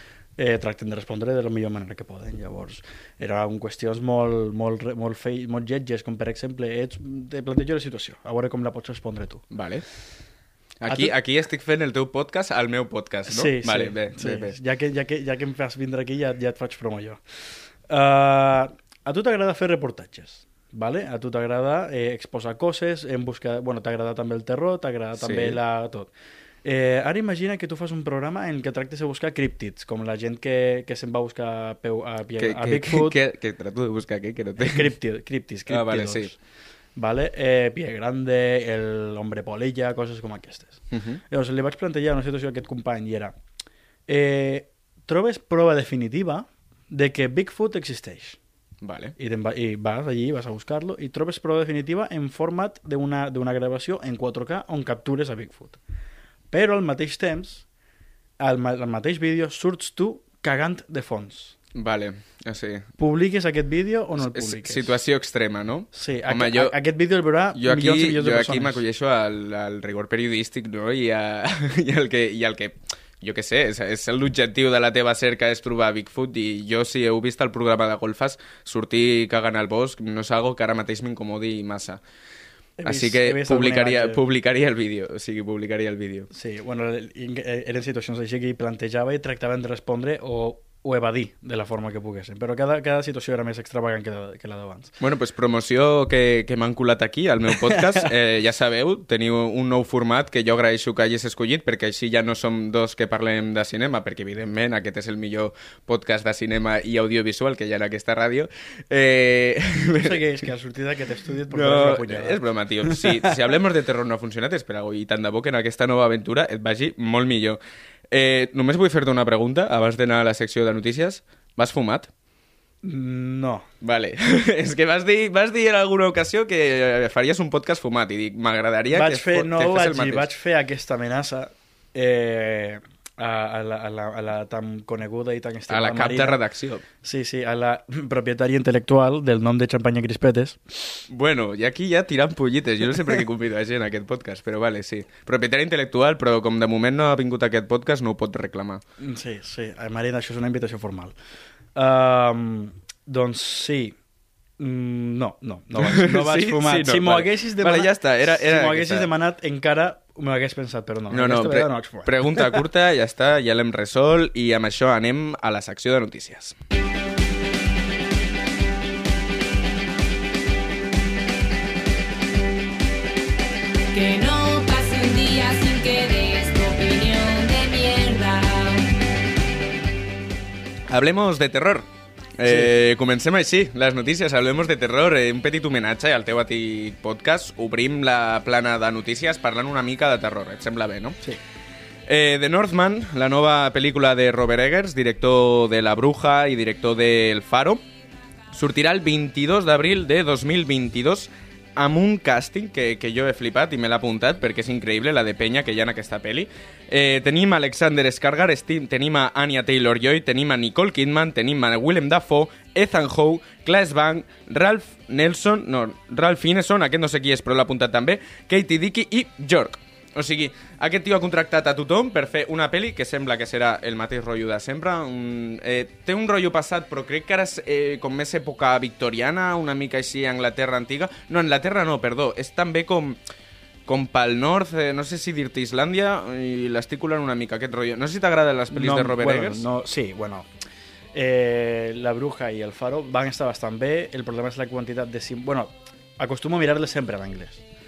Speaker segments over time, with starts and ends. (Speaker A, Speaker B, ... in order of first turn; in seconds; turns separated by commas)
Speaker A: 0.4-9.4, Speaker B: 9.5-9.8, Speaker B: 10.8-14.6, Speaker A: 10.9-11.1, Speaker A: 13.3-17.2, Speaker A: 17.9-26.1, Speaker B: 25.2-25.6, Speaker A: 26.6-33.2, Speaker B: 32.4-34.9, Speaker A: 34.6-36.4, Speaker B: 35.7-36.3, Speaker A: 37.0-43.4, Speaker B: 40.9-41.2, Speaker A: 44.1-48.4, Speaker B: 48.8-49.1, Speaker A: 49.2-55.8, Speaker A: 56.5-57.6, Speaker A: 58.4-61.5, Speaker B: 61.7-62.9, Speaker A: 63.0-64.9, Speaker B: 64.2-66.8, Speaker A: 65.9-68.8, Speaker B: 67.5-82.0, Speaker A: 82.8-84.2, Speaker B: 82.8-86.3, Speaker A: 86.3-94.9, Speaker B: 95.0-110.2, Speaker A: 97.7-98.1, Speaker A: 110.0-113.4, Speaker B: 111.5-117.6, Speaker B: 118.1-122.1, Speaker A: 122.8-123.7, Speaker B: 123.8-130.3, Speaker A: 128.9-136.4, Speaker B: 135.7-136.8, Speaker A: 137.0-140.6, Speaker B: 141.1-148.8, Speaker A: 149.0-151.2, Speaker A: 151.7-153.9, Speaker A: 154.6-162.6, Speaker B: 155.8-159.1, Speaker B: 161.1-166.6, Speaker C: 173.9-178.8, Speaker B: 180.9-181.9, Speaker B: 182.4-191.2, Speaker A: 182.4-182.7, Speaker B: 192.1-197.8, Speaker B: 198.5-233.2, Speaker B: 233.8-239.6, Speaker A: 238.7-240.5, Speaker A: 241.1-247.6